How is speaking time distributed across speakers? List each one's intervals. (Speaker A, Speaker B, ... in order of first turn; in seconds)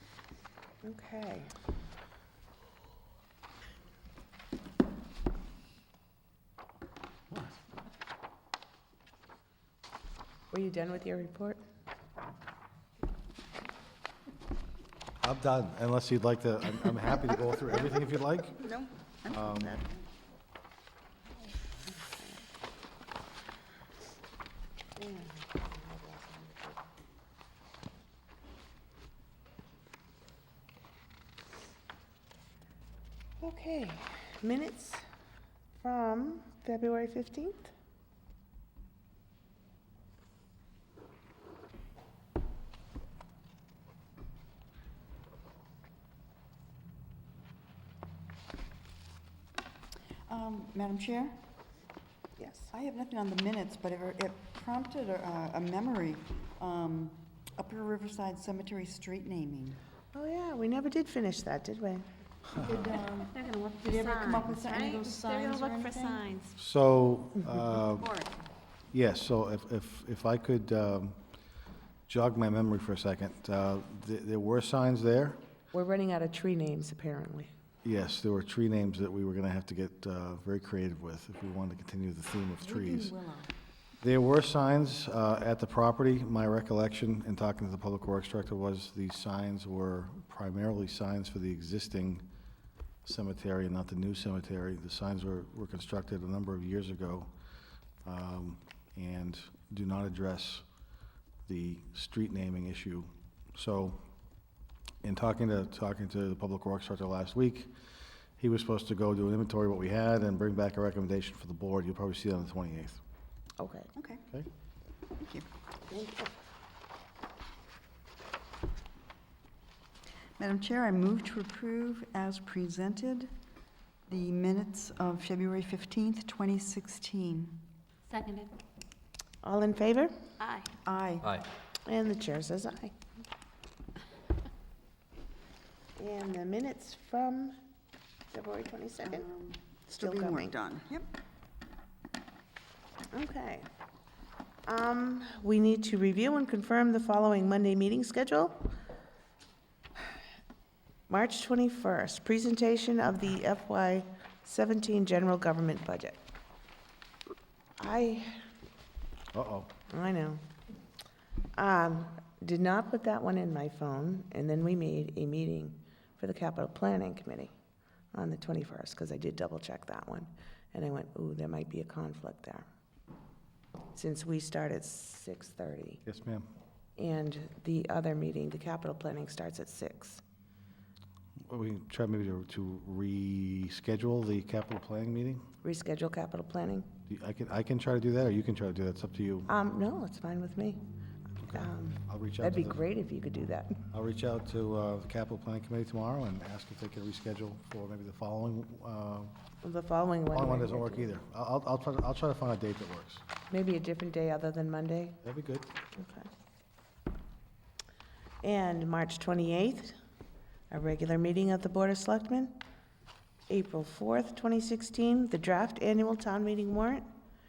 Speaker A: 0.8-1.5, 10.5-11.6, 22.1-22.4, 25.0-26.8, 33.4-35.0, 35.8-37.7, 52.4-52.7, 60.1-62.0, 75.7-77.5, 113.6-113.9, 115.9-116.3, 129.4-130.1, 131.8-132.9, 135.9-137.6, 138.3-139.3, 140.0-140.5, 143.1-143.7, 144.7-148.7, 151.1-156.2, 157.8-158.4, 159.9-160.4, 161.6-167.5, 168.1-172.7, 173.9-176.0, 177.0-180.2, 185.6-186.9, 189.5-190.8, 191.4-193.8, 199.6-201.1, 203.5-205.2, 205.9-206.3, 208.4-209.9, 210.7-212.6, 213.5-217.1
Speaker B: 15.2-18.6, 19.3-19.8, 66.6-68.1, 68.9-71.2, 72.1-75.4, 77.8-83.1, 84.0-92.2, 93.0-97.3, 98.0-100.6, 101.5-104.0, 105.0-107.7, 108.4-113.0, 159.3-159.7, 176.1-176.5, 181.5-185.4, 187.1-189.5, 191.4-192.8, 193.9-199.3, 200.3-203.2, 205.2-205.7
Speaker C: 18.6-19.8, 50.3-51.5, 52.7-59.8, 62.5-66.2, 82.6-83.5, 114.0-114.2, 115.2-115.5, 120.4-123.3, 124.1-127.7, 130.8-131.4, 139.0-141.1
Speaker D: 62.9-66.5, 68.0-68.3, 128.1-128.5, 130.4-130.7